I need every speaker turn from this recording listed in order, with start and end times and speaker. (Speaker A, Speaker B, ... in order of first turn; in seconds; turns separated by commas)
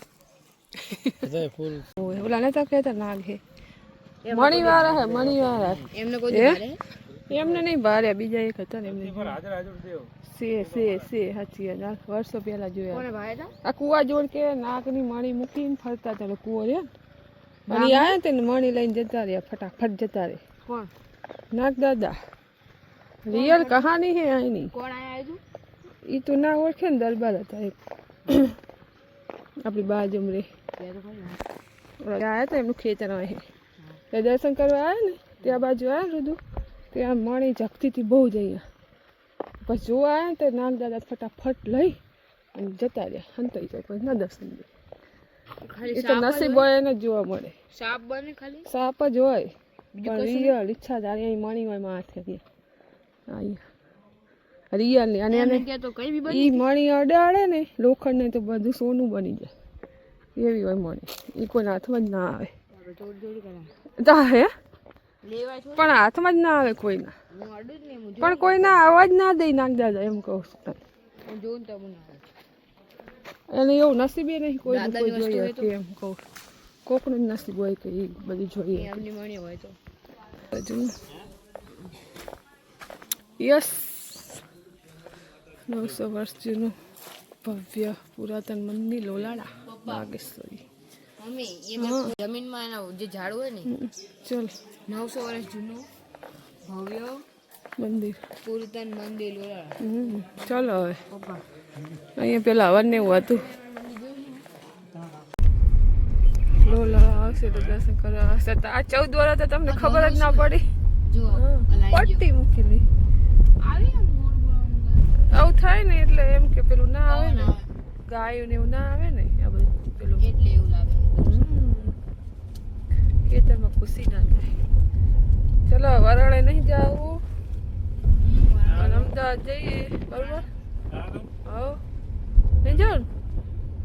Speaker A: 0.8-1.2, Speaker B: 1.2-1.9, Speaker A: 2.0-3.4, Speaker C: 4.2-6.8, Speaker A: 4.3-6.6, Speaker B: 5.5-5.9, Speaker A: 7.3-9.4, Speaker B: 8.8-11.1, Speaker A: 10.3-13.0, Speaker C: 12.9-13.5, Speaker A: 13.6-16.9, Speaker C: 17.7-18.2, Speaker A: 17.7-20.4, Speaker C: 20.6-20.9, Speaker A: 21.5-22.2, Speaker A: 23.2-24.7, Speaker C: 23.3-23.9, Speaker C: 24.7-25.4, Speaker A: 26.1-27.7, Speaker A: 28.3-28.5, Speaker A: 29.6-30.5, Speaker C: 30.8-31.4, Speaker A: 32.0-33.4, Speaker A: 34.1-36.4, Speaker A: 36.9-38.6, Speaker A: 39.6-42.0, Speaker A: 42.5-44.7, Speaker C: 45.6-46.7, Speaker A: 45.9-47.5, Speaker C: 47.7-48.7, Speaker A: 48.6-49.5, Speaker C: 49.9-50.5, Speaker A: 50.0-52.4, Speaker A: 53.3-53.6, Speaker A: 54.7-55.6, Speaker C: 55.3-56.7, Speaker A: 56.3-59.5, Speaker A: 60.3-62.5, Speaker C: 62.7-63.7, Speaker A: 64.0-64.5, Speaker C: 65.2-66.0, Speaker A: 65.8-67.1, Speaker C: 67.3-69.1, Speaker A: 68.2-70.8, Speaker C: 71.2-72.2, Speaker A: 73.5-76.2, Speaker C: 74.7-75.7, Speaker A: 76.8-79.0, Speaker C: 78.7-79.8, Speaker A: 80.5-80.9, Speaker A: 83.4-84.2, Speaker A: 85.7-86.7, Speaker A: 87.4-90.6, Speaker C: 89.7-90.1, Speaker C: 91.2-93.7, Speaker A: 91.8-92.1, Speaker A: 93.7-94.5, Speaker C: 94.9-95.9, Speaker C: 96.6-97.2, Speaker A: 97.8-98.2, Speaker C: 98.4-99.8, Speaker A: 99.8-101.0, Speaker C: 101.1-101.4, Speaker A: 102.2-103.5, Speaker C: 103.0-104.4, Speaker B: 106.5-107.8, Speaker A: 106.5-110.7, Speaker C: 109.7-112.2, Speaker A: 111.3-112.8, Speaker C: 113.6-115.3, Speaker A: 115.3-117.5, Speaker C: 117.0-117.7, Speaker A: 118.1-120.3, Speaker C: 120.2-121.6, Speaker A: 121.2-121.9, Speaker A: 123.2-124.6, Speaker A: 125.7-127.2, Speaker C: 128.0-129.1, Speaker A: 128.7-130.4, Speaker C: 130.1-130.4, Speaker B: 130.9-131.3, Speaker A: 131.4-131.8, Speaker A: 132.6-133.1